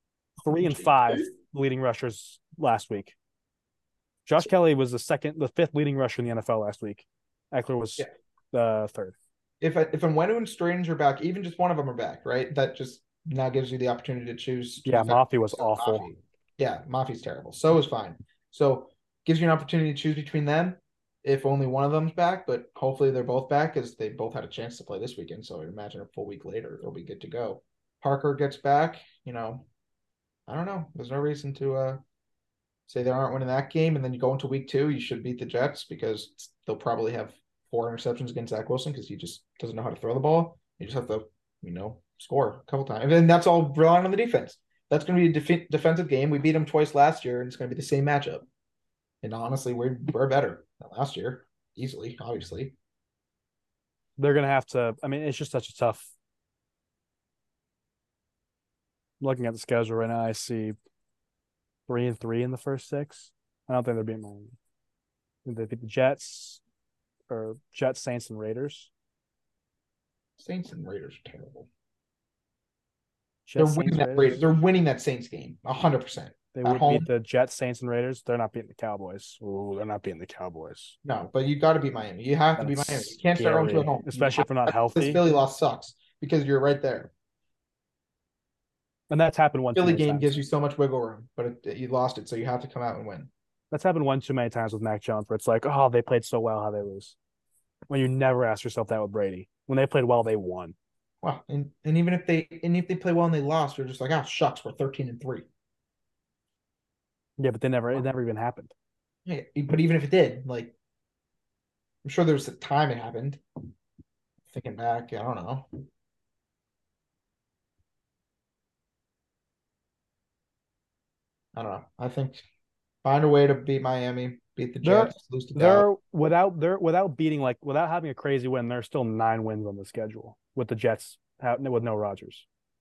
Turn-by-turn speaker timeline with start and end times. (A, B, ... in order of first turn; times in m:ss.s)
0:00.4-0:03.2 A
0:00.6-0:01.3 B
0:04.3-0:09.2 A
0:09.6-0:29.7 B
0:14.8-0:16.1 A
0:30.5-0:32.0 B
0:32.9-0:48.5 B
0:49.2-0:52.7 B
0:54.2-0:56.1 A
0:59.2-1:00.8 A
1:01.9-1:04.5 A
1:05.4-1:06.6 A
1:07.3-1:08.9 A
1:10.4-1:11.7 B
1:13.5-1:14.5 A
1:13.6-1:17.1 B
1:16.5-1:21.0 A
1:21.0-1:27.1 B
1:22.6-1:25.2 A
1:29.1-1:30.4 A
1:29.8-1:33.3 B
1:33.7-1:37.2 A
1:37.9-1:40.8 A
1:41.2-1:45.5 B
1:47.4-1:48.7 A
1:49.3-1:50.7 B
1:52.0-1:53.4 B
1:54.5-1:55.7 B
2:01.5-2:02.4 B
2:03.0-2:05.9 B
2:04.8-2:12.4 A